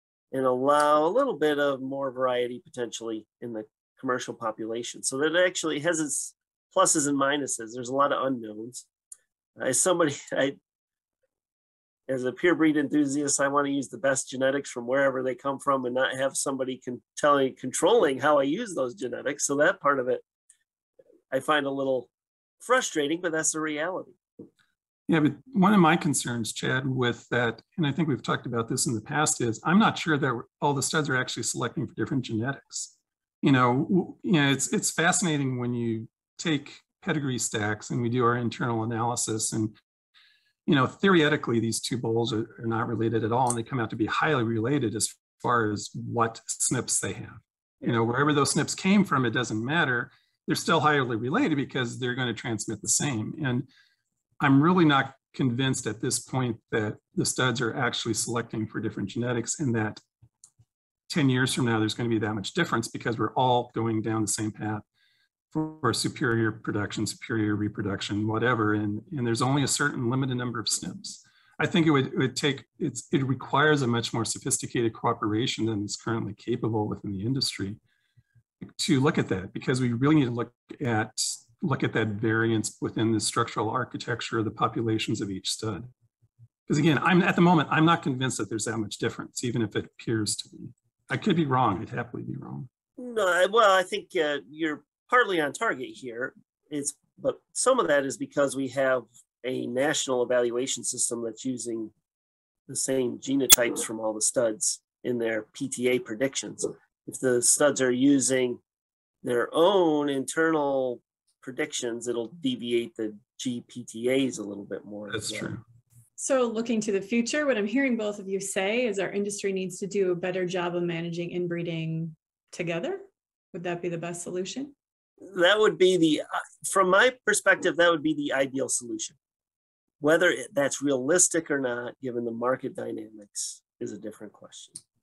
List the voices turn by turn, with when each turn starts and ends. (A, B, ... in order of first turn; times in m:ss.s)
0:00.3-0:08.8 A
0:09.6-0:10.6 A
0:12.1-0:20.2 A
0:21.3-0:22.1 A
0:22.6-0:24.2 A
0:25.1-0:39.7 B
0:40.6-0:53.6 B
0:54.4-1:00.0 B
1:01.1-1:04.8 B
1:05.5-1:17.8 B
1:18.6-1:25.8 B
1:26.7-1:32.7 B
1:33.0-1:41.9 A
1:42.7-1:48.6 A
1:49.2-1:55.5 A
1:55.1-1:55.6 B
1:56.2-2:04.7 C
2:05.2-2:09.2 A
2:10.0-2:14.8 A